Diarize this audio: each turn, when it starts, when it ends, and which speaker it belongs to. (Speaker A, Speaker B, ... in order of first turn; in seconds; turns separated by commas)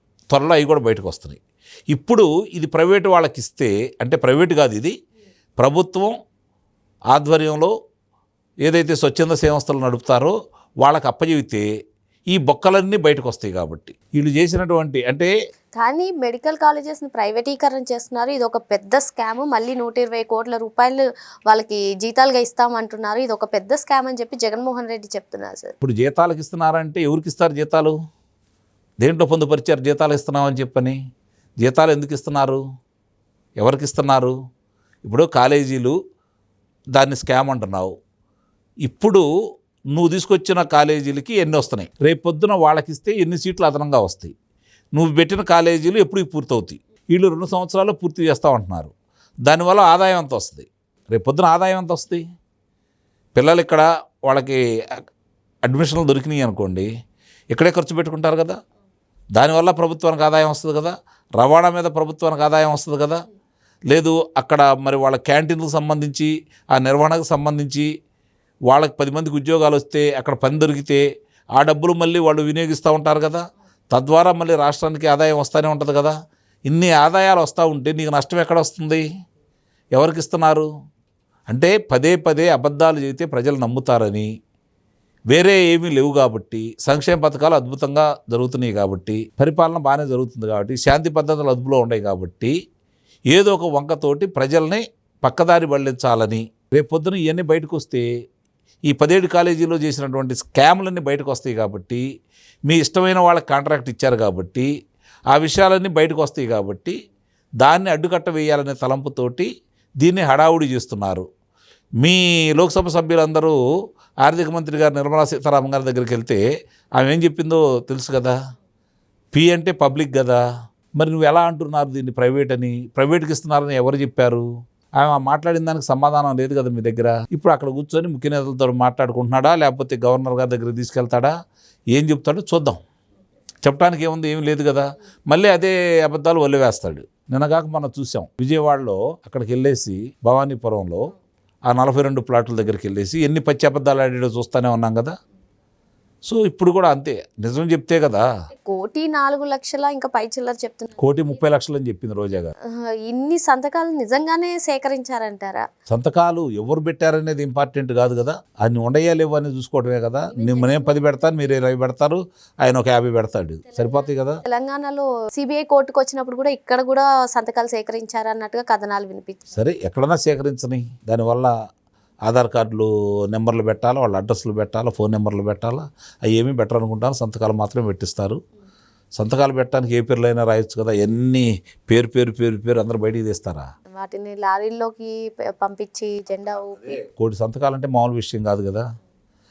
Speaker A: 0.3-4.9, Speaker A: 5.6-6.1, Speaker A: 7.1-7.7, Speaker A: 8.6-11.7, Speaker A: 12.3-15.3, Speaker B: 15.8-25.7, Speaker A: 25.8-27.9, Speaker A: 29.0-31.0, Speaker A: 31.6-32.6, Speaker A: 33.6-34.3, Speaker A: 35.0-36.0, Speaker A: 36.9-37.9, Speaker A: 38.8-39.2, Speaker A: 39.9-44.3, Speaker A: 45.0-48.9, Speaker A: 49.5-52.2, Speaker A: 53.4-54.6, Speaker A: 55.6-56.9, Speaker A: 57.5-58.6, Speaker A: 59.4-63.2, Speaker A: 63.9-67.9, Speaker A: 68.7-71.0, Speaker A: 71.5-76.2, Speaker A: 76.7-79.0, Speaker A: 79.9-80.7, Speaker A: 81.5-84.3, Speaker A: 85.3-92.5, Speaker A: 93.3-98.0, Speaker A: 98.9-102.0, Speaker A: 102.7-104.7, Speaker A: 105.3-107.0, Speaker A: 107.6-109.5, Speaker A: 110.0-111.3, Speaker A: 112.0-113.6, Speaker A: 114.2-116.4, Speaker A: 117.0-118.3, Speaker A: 119.3-120.4, Speaker A: 121.0-124.5, Speaker A: 125.0-131.3, Speaker A: 131.9-132.8, Speaker A: 133.6-141.1, Speaker A: 141.7-145.1, Speaker A: 146.2-148.3, Speaker B: 148.6-151.2, Speaker A: 151.0-152.5, Speaker B: 152.7-155.7, Speaker A: 155.9-164.4, Speaker B: 160.3-161.4, Speaker B: 163.7-169.6, Speaker A: 169.5-171.5, Speaker A: 172.3-178.4, Speaker A: 179.2-183.7, Speaker B: 183.9-187.0, Speaker A: 186.8-188.8